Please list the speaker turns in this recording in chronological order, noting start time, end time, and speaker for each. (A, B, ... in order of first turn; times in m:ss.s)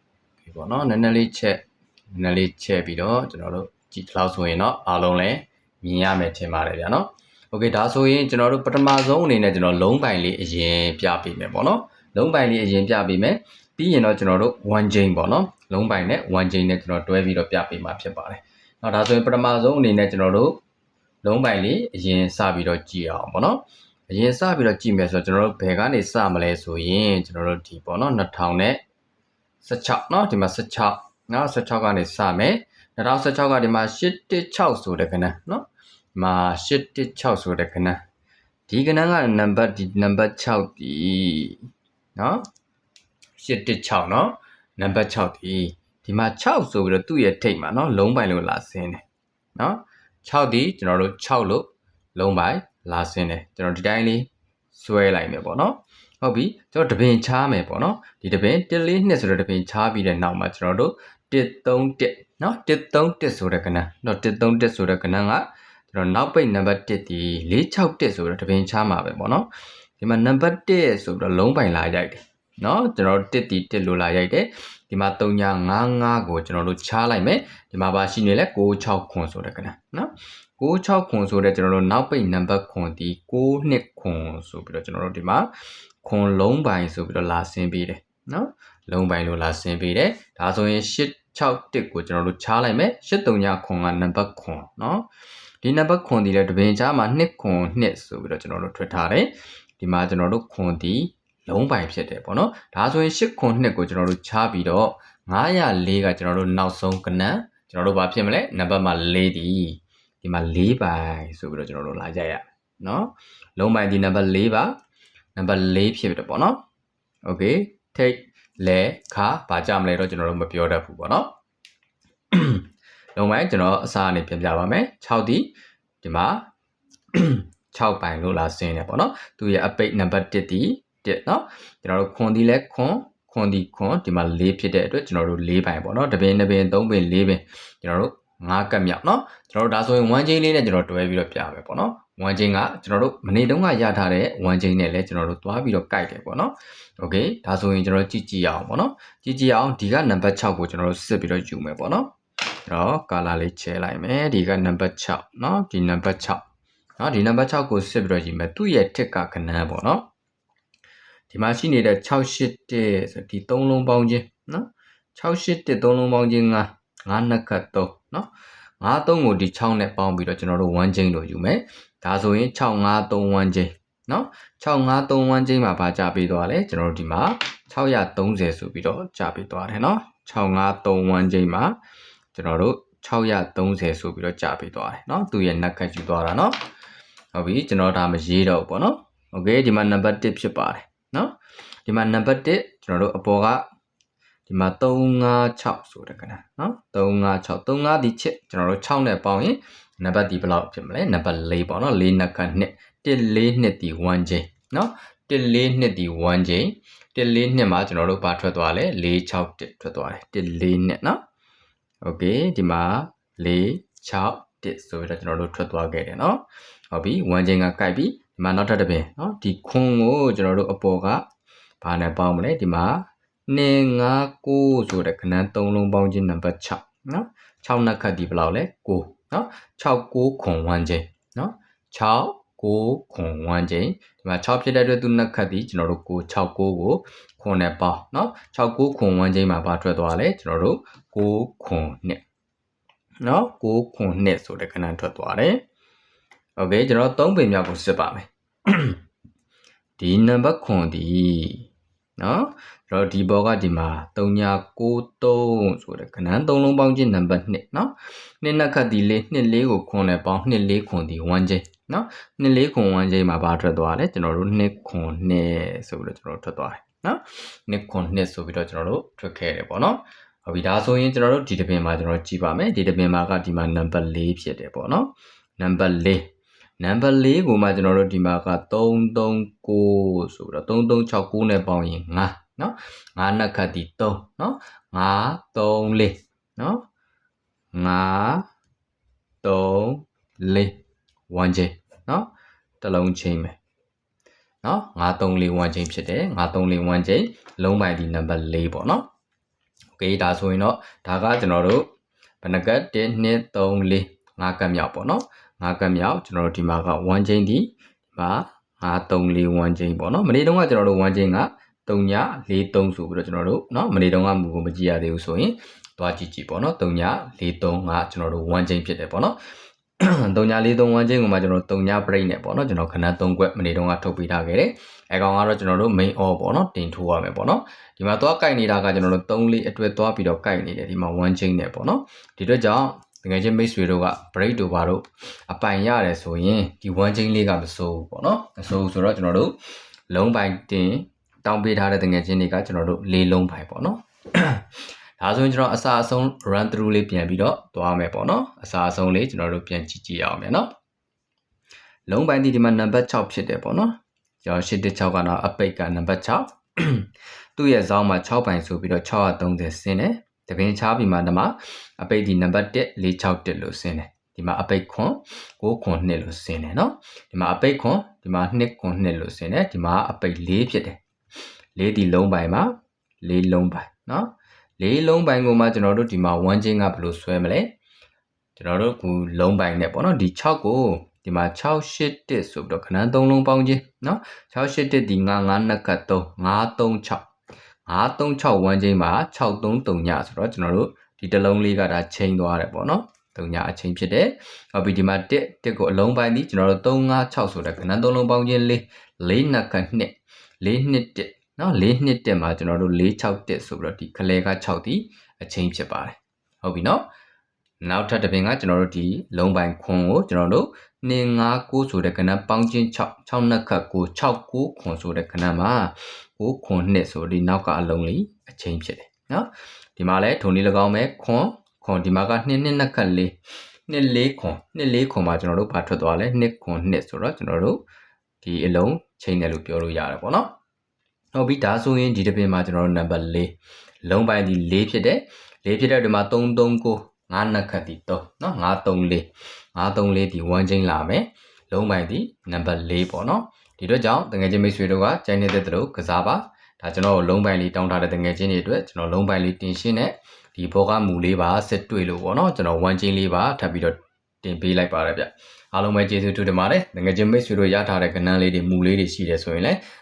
0:00.4-0:20.6 A
0:21.2-0:28.8 A
0:29.6-0:38.0 A
0:38.7-0:41.6 A
0:42.2-0:42.4 A
0:43.4-0:49.0 A
0:49.6-1:09.5 A
1:10.0-1:25.5 A
1:26.0-1:35.1 A
1:35.6-1:54.8 A
1:55.4-1:56.6 A
1:57.2-2:01.3 A
2:02.3-2:05.5 A
2:06.0-2:06.4 A
2:07.1-2:32.1 A
2:32.7-2:36.4 A
2:37.0-2:40.0 A
2:41.3-2:48.3 A
2:48.8-3:01.8 A
3:02.3-3:06.5 A
3:07.3-3:11.3 A
3:11.8-3:13.6 A
3:14.5-3:31.2 A
3:32.0-3:41.2 A
3:41.8-4:02.2 A
4:03.2-4:05.6 A
4:06.6-4:09.0 A
4:10.0-4:36.3 A
4:36.8-4:46.8 A
4:47.7-4:48.5 A
4:49.4-4:50.8 A
4:51.3-4:52.3 A
4:52.8-4:53.6 A
4:54.6-4:59.1 A
5:00.0-5:01.9 A
5:02.4-5:19.4 A
5:20.0-5:39.6 A
5:40.1-5:44.7 A
5:45.2-5:50.7 A
5:52.1-6:11.0 A
6:11.8-6:17.7 A
6:18.6-6:27.2 A
6:27.9-6:47.1 A
6:47.8-7:03.4 A
7:03.9-7:07.8 A
7:08.4-7:10.5 A
7:11.4-7:39.8 A